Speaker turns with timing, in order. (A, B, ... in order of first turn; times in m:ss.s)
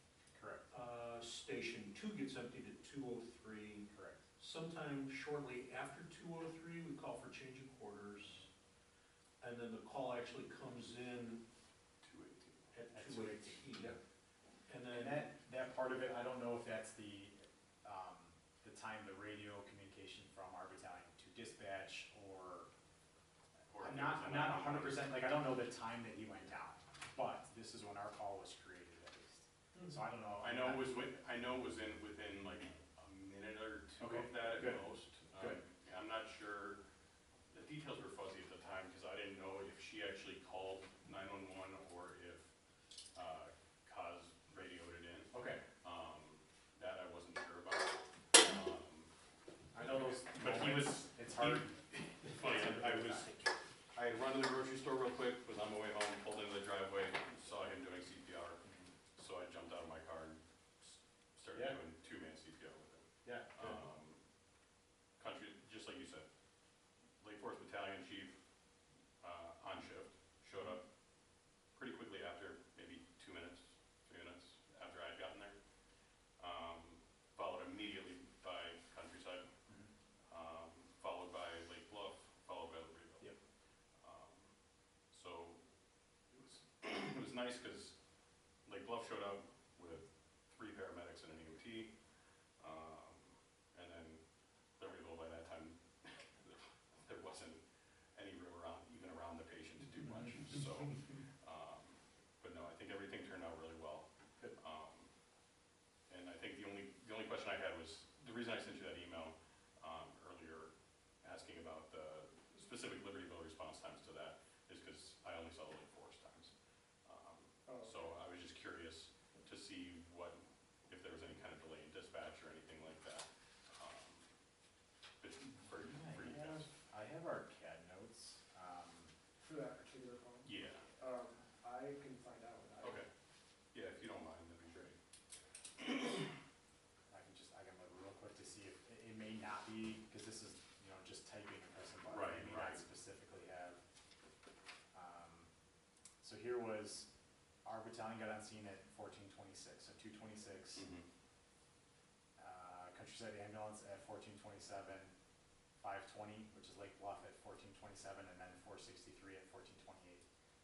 0:00.3-0:00.6 A
0:00.7-0:08.5 B
0:03.9-0:04.2 A
0:09.4-0:11.4 B
0:12.0-0:12.7 C
0:12.7-0:14.0 B
0:12.9-0:13.8 A
0:14.7-0:15.3 B
0:14.9-0:22.7 A
0:23.7-0:25.3 C
0:23.8-0:31.1 A
0:30.4-0:36.8 C
0:34.0-0:35.6 A
0:37.5-0:42.5 C
0:43.1-0:49.1 C
0:45.3-0:45.6 A
0:49.7-0:53.4 A
0:49.8-0:51.6 C
0:52.3-0:53.3 C
0:53.9-1:04.2 C
1:01.5-1:01.8 A
1:03.2-1:03.8 A
1:05.2-1:06.2 C
1:07.2-1:08.4 C
1:09.2-1:10.8 C
1:11.7-1:15.6 C
1:16.4-1:19.5 C
1:20.3-1:23.3 C
1:24.0-1:24.5 C
1:25.1-1:25.6 C
1:26.3-1:27.9 C
1:28.6-1:31.9 C
1:32.6-1:34.2 C
1:34.8-1:37.6 C
1:38.1-1:45.1 C
1:46.1-1:50.7 C
1:51.2-1:56.5 C
1:57.0-2:04.2 C
1:57.6-1:58.0 D
2:05.2-2:06.7 C
2:05.8-2:09.1 A
2:09.4-2:13.0 D
2:10.4-2:10.9 C
2:12.8-2:13.1 C
2:13.7-2:14.9 C
2:17.1-2:23.8 A
2:22.1-2:22.8 C
2:24.9-2:25.5 A
2:26.2-2:27.1 A
2:27.6-2:30.9 A
2:30.7-2:31.0 C
2:32.4-2:35.1 A
2:35.8-2:40.2 A